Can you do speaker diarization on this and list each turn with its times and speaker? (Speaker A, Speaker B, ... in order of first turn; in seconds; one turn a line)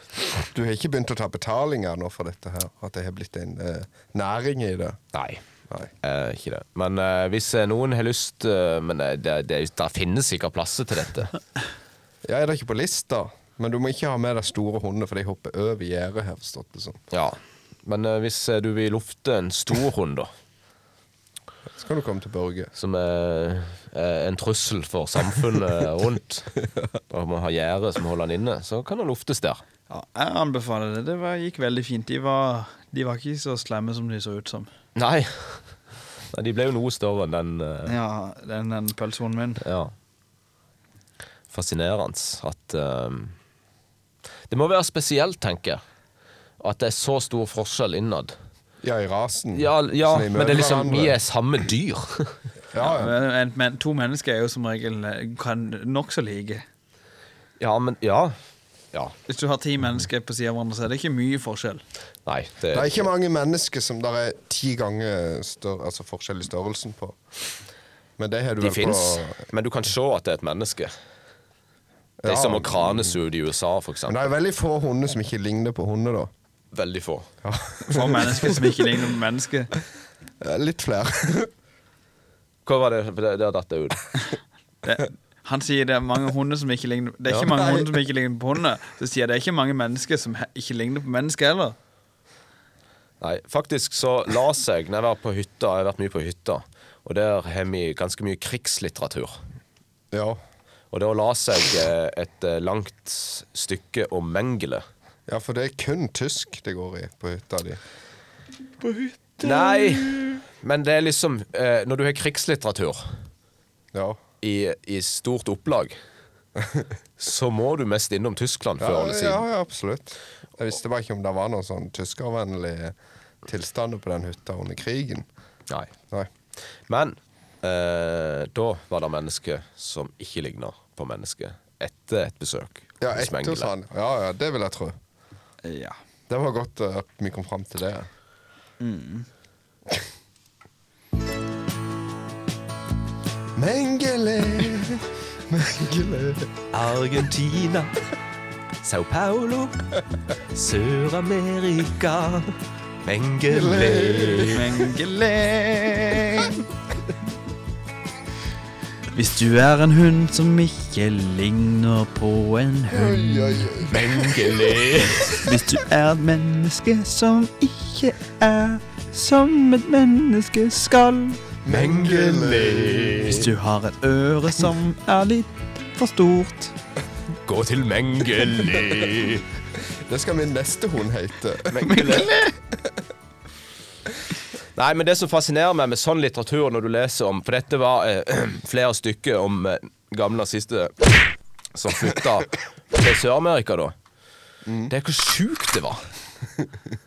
Speaker A: 0.4-5.0
Speaker B: 5.1-5.4
Speaker B: 6.0-11.3
Speaker A: 12.2-17.0
Speaker B: 17.1-20.3
Speaker A: 21.7-22.7
Speaker B: 22.8-26.6
Speaker B: 27.1-29.6
Speaker C: 29.9-34.7
Speaker B: 35.0-35.7
Speaker B: 36.3-37.9
Speaker C: 37.9-39.6
Speaker B: 39.6-39.9
Speaker B: 41.5-43.3
Speaker B: 44.5-45.8
Speaker B: 46.6-48.3
Speaker A: 48.8-51.1
Speaker B: 49.5-52.4
Speaker A: 52.7-53.1
Speaker C: 52.8-56.6
Speaker B: 57.6-58.4
Speaker C: 59.3-61.8
Speaker B: 62.2-63.0
Speaker A: 62.7-67.2
Speaker A: 68.2-69.4
Speaker B: 68.6-70.9
Speaker A: 72.2-73.2
Speaker B: 72.2-74.3
Speaker A: 74.1-76.3
Speaker B: 76.7-77.3
Speaker A: 77.4-78.8
Speaker C: 77.9-79.7
Speaker A: 80.4-81.5
Speaker B: 82.6-84.0
Speaker C: 84.8-91.8
Speaker A: 87.5-87.9
Speaker B: 93.2-99.3
Speaker A: 100.1-100.4
Speaker B: 100.9-104.8
Speaker A: 105.3-107.8
Speaker C: 108.8-110.4
Speaker B: 109.4-113.0
Speaker A: 113.9-114.2
Speaker B: 114.4-116.0
Speaker A: 116.6-116.9
Speaker B: 117.2-119.4
Speaker A: 118.8-125.3
Speaker B: 126.9-133.7
Speaker A: 133.0-135.0
Speaker C: 135.6-136.0
Speaker A: 136.3-138.1
Speaker C: 138.8-139.3
Speaker A: 143.6-146.5
Speaker B: 146.7-147.9
Speaker B: 148.8-149.8
Speaker B: 150.5-152.5
Speaker B: 153.0-154.7
Speaker A: 153.5-154.6
Speaker C: 154.5-156.7
Speaker C: 159.1-163.7
Speaker A: 162.9-164.4
Speaker B: 163.9-165.5
Speaker C: 165.4-171.4
Speaker A: 171.6-173.4
Speaker B: 171.7-173.5
Speaker C: 173.2-176.7
Speaker B: 177.4-179.5
Speaker A: 179.8-181.8
Speaker B: 181.7-182.3
Speaker C: 181.8-182.6
Speaker B: 184.7-191.2
Speaker B: 191.7-193.9
Speaker A: 194.7-194.9
Speaker B: 194.9-196.0